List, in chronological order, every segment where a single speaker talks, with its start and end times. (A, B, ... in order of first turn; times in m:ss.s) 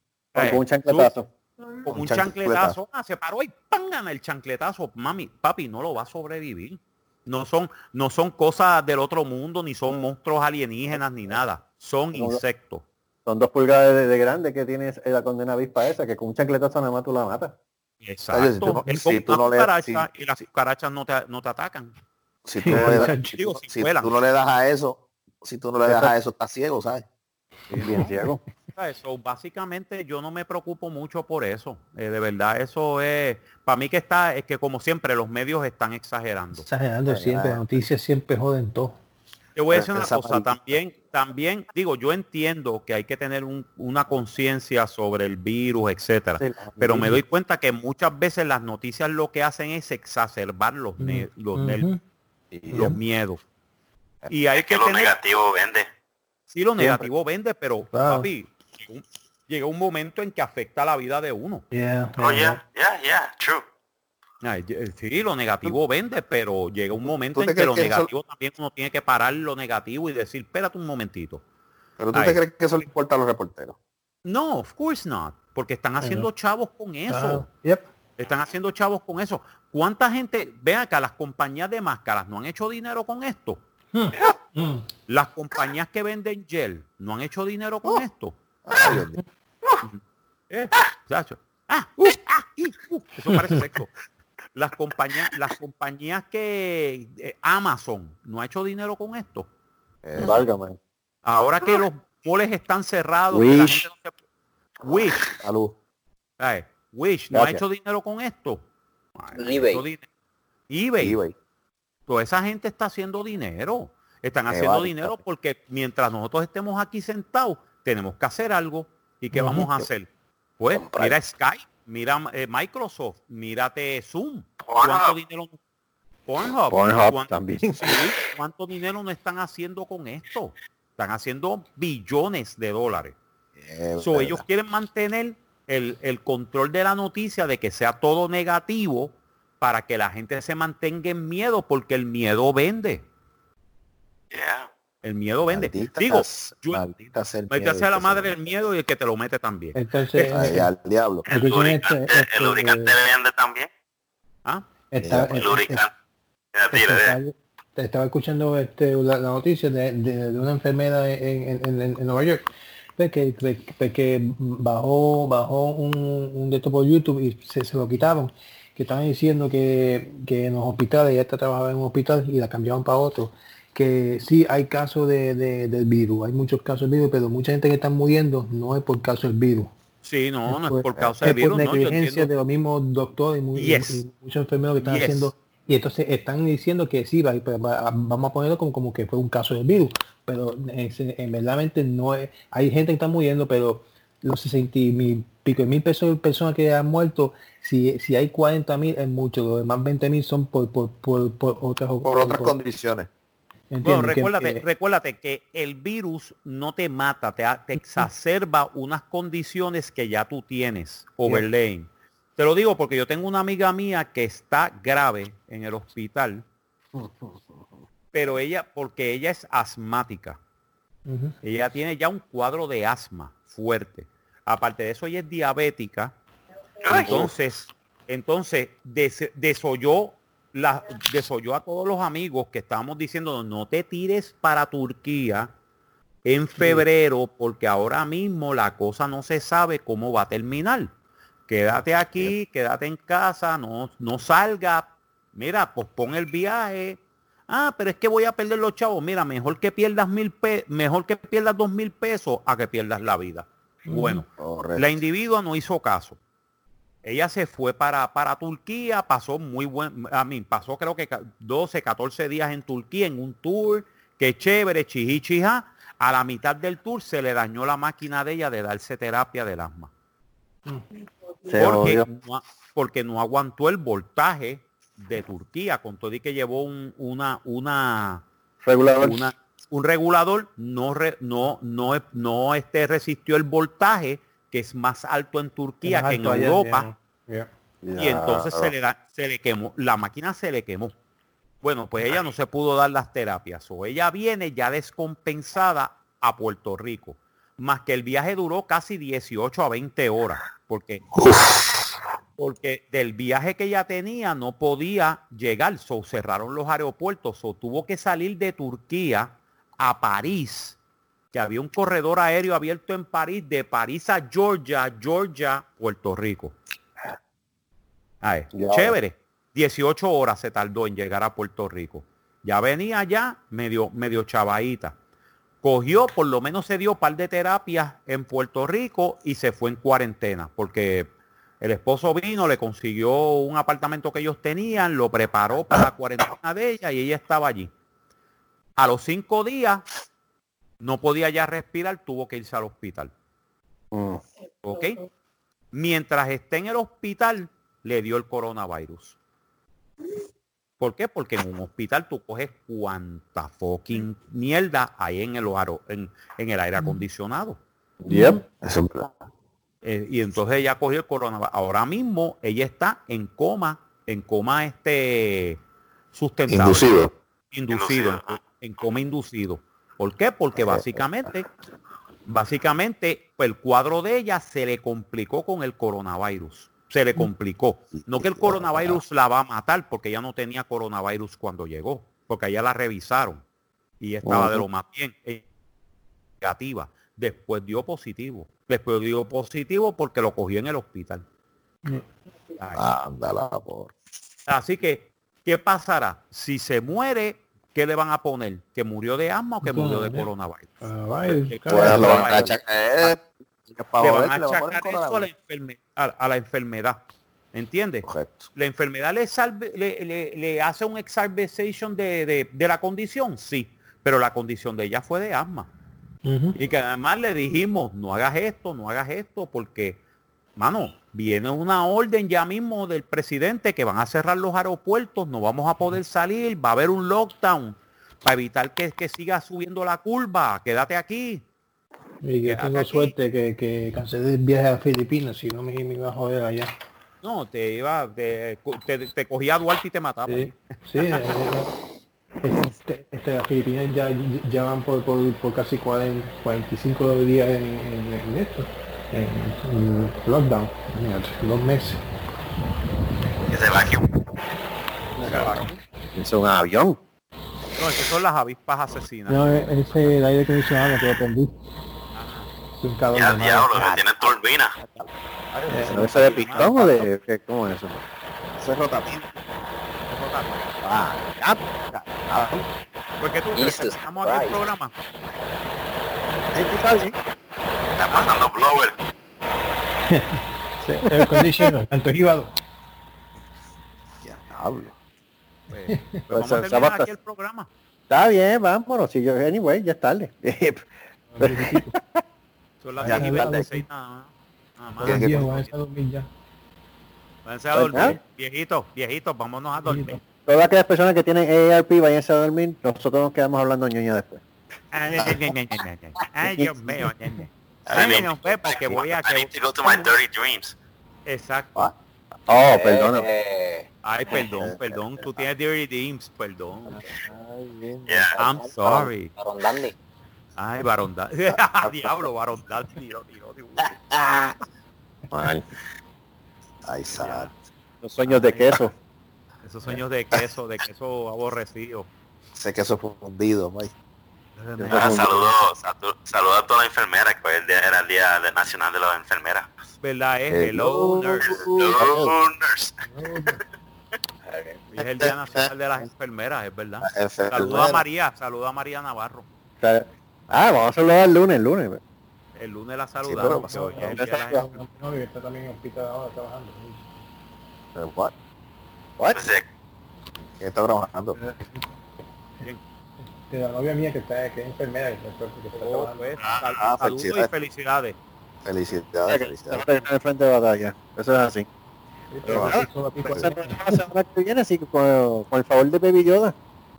0:00.4-0:01.1 A
0:00.4-0:01.3 B
0:01.9-0:12.8 A
0:01.9-0:02.8 C
0:12.1-0:12.4 B
0:13.3-0:17.5 B
0:18.0-0:21.9 A
0:18.3-0:20.1 C
0:22.5-0:27.0 C
0:22.6-0:23.4 D
0:22.7-0:23.1 B
0:23.4-0:24.1 A
0:25.9-0:26.1 B
0:27.7-0:28.1 A
0:27.8-0:28.4 B
0:28.8-0:36.7 A
0:36.5-0:39.0 D
0:37.1-0:37.6 C
0:39.6-0:51.9 A
0:39.7-0:40.6 C
0:46.4-0:47.2 B
0:51.0-0:52.0 D
0:52.5-0:53.0 C
0:52.7-0:53.0 D
0:52.8-0:53.4 A
0:54.3-0:55.2 A
0:54.5-0:55.9 E
0:56.5-1:01.6 A
0:56.8-0:57.1 B
0:57.9-0:58.3 D
1:01.7-1:02.6 D
1:02.2-1:03.6 E
1:04.4-1:11.4 A
1:07.4-1:08.1 C
1:12.0-1:13.8 C
1:12.1-1:12.4 A
1:14.2-1:17.5 A
1:16.0-1:16.3 D
1:17.1-1:17.9 D
1:18.2-1:23.6 A
1:23.9-1:24.9 D
1:25.1-1:28.4 A
1:28.7-1:29.2 C
1:28.8-1:29.2 D
1:29.8-1:33.9 A
1:33.3-1:33.6 D
1:34.6-1:39.5 A
1:40.0-1:40.5 C
1:40.2-1:40.8 B
1:41.2-1:44.1 A
1:43.3-1:43.9 B
1:44.8-1:45.3 A
1:45.4-1:45.8 C
1:46.4-1:48.6 A
1:47.3-1:47.6 B
1:49.2-1:50.0 A
1:49.3-1:49.8 F
1:50.7-1:51.2 A
1:51.0-1:51.4 C
1:52.1-2:00.1 A
1:54.5-1:55.2 C
1:59.4-1:59.7 D
2:00.6-2:05.6 A
2:04.7-2:05.1 E
2:06.3-2:13.2 A
2:06.7-2:08.0 B
2:13.6-2:14.4 C
2:14.0-2:23.0 A
2:24.3-2:24.7 E
2:25.0-2:26.8 A
2:25.5-2:28.3 C
2:27.5-2:29.8 A
2:29.8-2:30.7 D
2:30.3-2:31.3 C
2:31.3-2:33.0 D
2:31.3-2:33.7 E
2:34.9-2:35.8 D
2:35.0-2:35.4 C
2:35.2-2:35.9 E
2:36.5-2:37.2 E
2:36.7-2:42.5 D
2:43.0-2:59.7 D
3:00.0-3:02.3 A
3:00.5-3:22.6 D
3:00.9-3:01.2 C
3:03.6-3:04.0 A
3:04.8-3:05.3 A
3:22.0-3:23.1 C
3:23.7-3:24.6 D
3:23.8-3:36.4 A
3:27.8-3:28.1 D
3:37.0-3:37.6 B
3:38.1-3:40.4 A
3:41.1-3:41.4 D
3:41.4-3:46.2 A
3:46.8-3:47.3 E
3:46.9-3:55.5 A
3:56.2-4:00.9 A
3:56.6-3:56.8 D
4:01.5-4:16.2 A
4:13.9-4:14.2 D
4:14.4-4:15.0 C
4:17.0-4:29.9 A
4:31.5-4:32.1 B
4:31.5-4:38.3 A
4:38.6-4:39.2 B
4:39.0-4:46.9 A
4:45.8-4:47.5 D
4:47.8-4:48.7 B
4:48.0-4:50.9 A
4:51.6-5:01.0 A
5:02.4-5:10.8 A
5:11.3-5:16.6 A
5:18.2-5:25.0 A
5:18.5-5:19.0 B
5:25.6-5:31.1 A
5:31.6-5:37.7 A
5:38.8-5:39.8 A
5:40.8-5:43.1 A
5:43.9-5:44.2 B
5:44.6-5:45.0 A
5:45.7-5:49.2 A
5:50.8-5:57.6 A
5:56.8-5:57.0 D
5:58.0-5:58.4 B
5:58.1-5:58.4 D
5:58.6-5:59.3 C
5:59.8-6:05.6 A
6:06.1-6:11.5 A
6:06.5-6:07.1 C
6:07.7-6:08.4 E
6:10.6-6:11.0 C
6:12.3-6:23.4 A
6:18.0-6:19.0 C
6:24.0-6:25.4 A
6:24.2-6:24.6 B
6:26.4-6:31.2 A
6:31.8-6:32.1 D
6:32.6-6:32.9 A
6:32.8-6:33.9 C
6:34.5-6:43.1 A
6:39.6-6:40.3 D
6:40.8-6:42.1 D
6:41.7-6:45.3 C
6:41.7-6:42.5 B
6:44.0-6:55.7 A
6:48.0-6:48.5 C
6:56.2-6:56.6 D
6:56.6-7:00.0 A
7:00.6-7:11.4 A
7:12.2-7:16.7 D
7:12.4-7:13.1 A
7:17.2-7:21.3 A
7:20.3-7:21.7 D
7:22.4-7:32.0 D
7:33.5-7:34.1 E
7:35.2-7:35.7 D
7:35.2-7:35.7 A
7:36.2-7:37.0 B
7:37.8-7:39.4 A
7:39.3-7:41.5 D
7:42.1-7:42.5 A
7:42.8-7:43.9 D
7:43.1-7:44.8 E
7:45.5-7:47.0 A
7:45.7-7:46.1 D
7:45.9-7:48.0 B
7:48.6-7:49.1 C
7:49.1-7:49.4 A
7:50.1-7:50.6 A
7:50.8-7:51.6 B
7:52.3-7:52.6 C
7:53.2-7:54.9 A
7:53.5-7:54.6 F
7:56.5-7:57.2 B
7:58.0-7:58.9 E
8:00.1-8:00.4 D
8:01.0-8:01.7 B
8:01.0-8:02.5 D
8:04.2-8:05.0 C
8:05.7-8:07.7 A
8:05.9-8:06.2 D
8:06.3-8:07.1 B
8:08.1-8:10.8 B
8:11.3-8:11.9 D
8:11.4-8:12.2 B
8:12.8-8:15.7 A
8:13.0-8:13.8 D
8:13.0-8:13.7 C
8:15.0-8:16.3 D
8:15.0-8:15.5 C
8:17.5-8:20.2 A
8:17.8-8:18.2 B
8:19.8-8:20.2 D
8:20.5-8:24.4 B
8:24.9-8:30.1 A
8:27.9-8:30.8 E
8:31.3-8:31.9 A
8:32.5-8:33.3 B
8:32.7-8:33.9 F
8:34.0-8:37.0 A
8:34.4-8:34.8 C
8:37.3-8:38.0 B
8:38.1-8:38.4 E
8:38.4-8:39.3 A
8:38.4-8:40.0 F
8:40.6-8:44.0 A
8:41.7-8:42.3 C
8:44.1-8:44.5 C
8:45.3-8:45.6 B
8:46.8-8:47.5 C
8:47.2-8:47.5 A
8:48.0-8:48.9 B
8:48.2-8:48.7 A
8:49.6-8:52.1 A
8:52.6-8:53.9 C
8:54.8-8:55.4 C
8:54.8-8:55.4 B
8:54.9-8:59.8 E
9:00.0-9:01.5 A
9:00.5-9:02.3 C
9:01.4-9:03.0 E
9:02.0-9:02.3 B
9:03.0-9:03.6 D
9:04.5-9:05.7 C
9:04.9-9:09.5 A
9:07.0-9:08.0 C
9:09.8-9:12.0 B
9:12.6-9:14.8 A
9:13.2-9:14.2 C
9:13.7-9:17.1 D
9:14.1-9:14.6 B
9:18.0-9:18.3 C
9:19.3-9:19.7 E
9:20.6-9:21.4 C
9:21.4-9:21.8 D
9:23.2-9:26.4 D
9:25.8-9:28.2 A
9:26.4-9:27.5 C
9:28.6-9:29.8 C
9:29.3-9:31.7 B
9:32.3-9:34.0 D
9:32.5-9:36.6 B
9:32.5-9:33.5 C